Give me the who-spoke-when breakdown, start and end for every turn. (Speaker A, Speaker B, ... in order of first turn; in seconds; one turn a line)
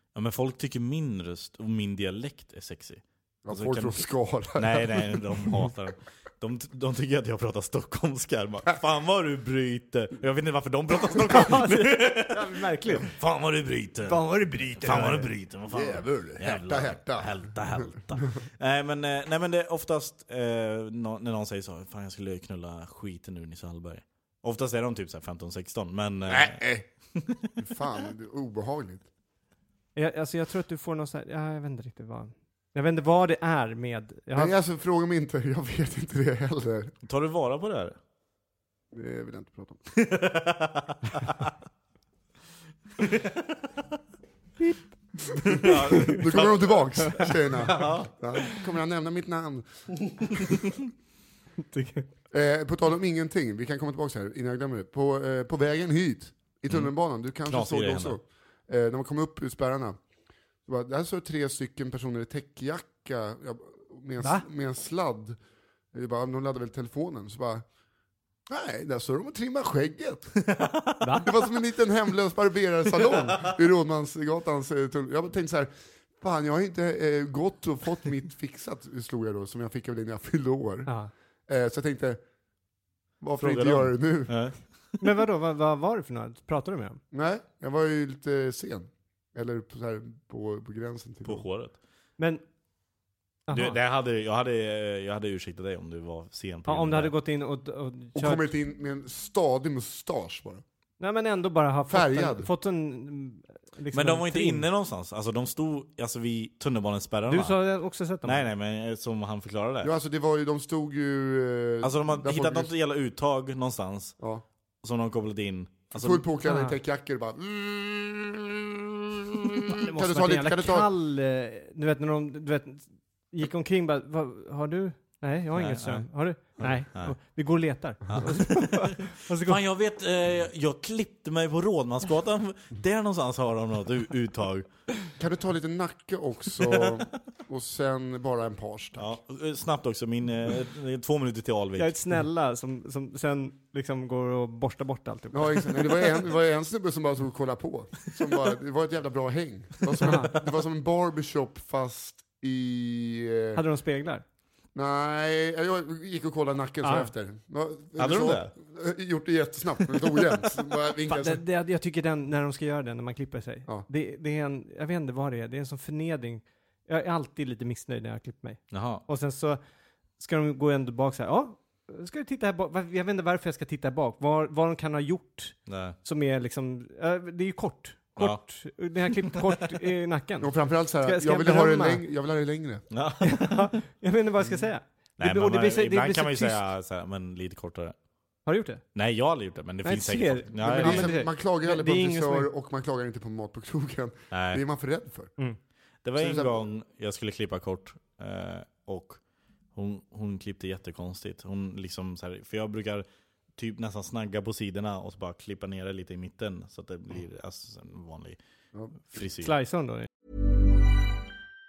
Speaker A: 0.1-4.0
Speaker B: 3.4-5.7
Speaker A: 4.5-26.6
Speaker C: 11.3-13.1
Speaker C: 14.0-15.3
Speaker B: 15.7-17.9
Speaker B: 26.3-26.9
Speaker B: 27.6-29.1
Speaker C: 29.9-34.5
Speaker B: 34.3-36.9
Speaker A: 37.0-38.0
Speaker B: 38.9-39.9
Speaker A: 39.9-41.5
Speaker A: 43.0-43.4
Speaker A: 45.4-48.1
Speaker B: 45.5-50.7
Speaker C: 45.6-46.1
Speaker A: 50.4-50.7
Speaker C: 51.7-52.1
Speaker B: 52.3-60.0
Speaker A: 57.5-58.2
Speaker B: 60.6-65.4
Speaker C: 64.2-64.5
Speaker B: 65.9-67.6
Speaker B: 68.5-70.5
Speaker A: 70.5-71.0
Speaker C: 71.0-71.3
Speaker B: 71.2-80.9
Speaker C: 80.9-81.1
Speaker B: 81.5-82.2
Speaker B: 83.2-84.4
Speaker A: 83.4-85.0
Speaker C: 85.0-87.0
Speaker B: 87.1-91.4
Speaker A: 91.2-91.7
Speaker C: 92.2-92.4
Speaker C: 93.5-93.8
Speaker A: 93.5-97.1
Speaker C: 96.7-98.4
Speaker B: 98.1-100.6
Speaker C: 101.0-104.6
Speaker B: 101.9-102.5
Speaker A: 103.9-107.6
Speaker C: 107.3-108.4
Speaker A: 108.2-109.9
Speaker B: 109.8-112.7
Speaker A: 111.8-114.2
Speaker B: 114.2-114.4
Speaker A: 114.8-116.2
Speaker B: 115.9-118.7
Speaker C: 116.4-116.8
Speaker B: 119.3-120.9
Speaker C: 119.7-129.6
Speaker A: 125.5-126.1
Speaker A: 126.6-127.1
Speaker A: 128.1-134.7
Speaker B: 135.2-139.2
Speaker A: 139.0-141.9
Speaker C: 141.8-146.0
Speaker B: 145.3-153.6
Speaker C: 150.0-150.3
Speaker C: 153.5-154.2
Speaker B: 154.7-161.4
Speaker C: 156.8-157.1
Speaker A: 158.0-158.5
Speaker C: 161.1-169.6
Speaker A: 168.7-169.0
Speaker C: 170.2-182.0
Speaker A: 175.7-176.0
Speaker A: 178.2-178.4
Speaker A: 179.2-179.5
Speaker B: 180.4-182.8
Speaker A: 182.9-183.6
Speaker C: 183.2-186.6
Speaker A: 185.2-187.9
Speaker C: 188.4-188.8
Speaker A: 188.9-191.2
Speaker C: 189.8-192.5
Speaker B: 190.6-195.3
Speaker A: 194.3-194.6
Speaker A: 196.0-199.2
Speaker B: 196.2-196.6
Speaker A: 199.7-203.1
Speaker A: 203.6-208.4
Speaker A: 209.0-209.5
Speaker C: 209.4-210.1